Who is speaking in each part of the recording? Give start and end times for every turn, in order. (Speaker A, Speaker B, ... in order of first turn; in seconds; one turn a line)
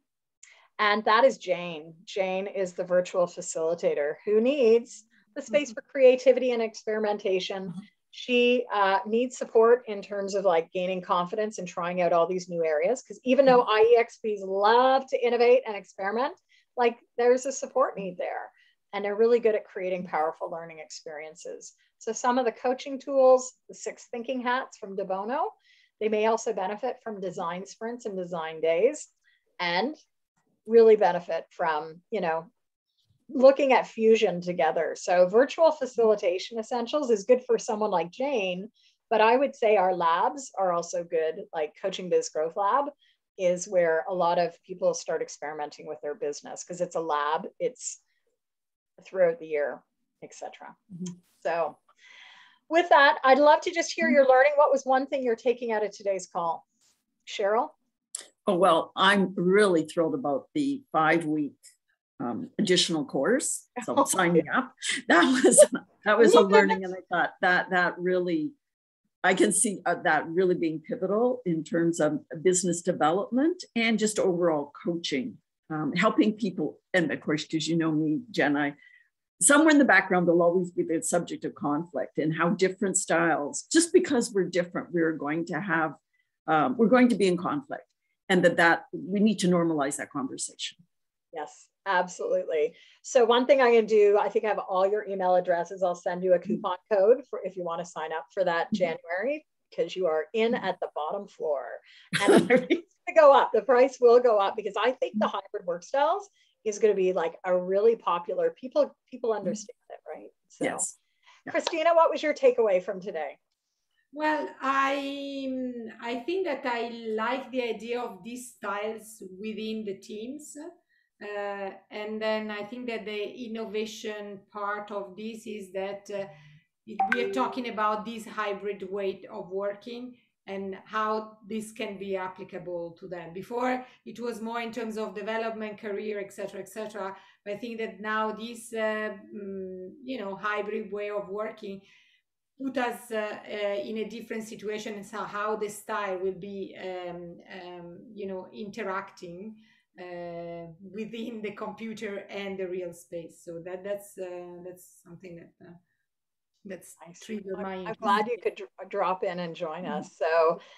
Speaker A: 0.8-29.1
Speaker A: 29.6-30.0
Speaker A: 30.6-32.5
Speaker A: 33.3-48.0
Speaker A: 49.0-50.8
Speaker A: 51.4-51.8
Speaker A: 52.7-56.6
Speaker A: 57.2-57.7
Speaker B: 58.5-61.6
Speaker B: 62.2-68.5
Speaker A: 66.3-66.8
Speaker B: 69.2-78.7
Speaker B: 79.4-90.8
Speaker A: 91.3-110.8
Speaker B: 110.6-110.9
Speaker A: 111.5-113.4
Speaker C: 114.1-120.6
Speaker C: 121.2-126.3
Speaker C: 126.8-141.8
Speaker C: 142.6-155.8
Speaker C: 156.6-158.2
Speaker A: 157.0-160.6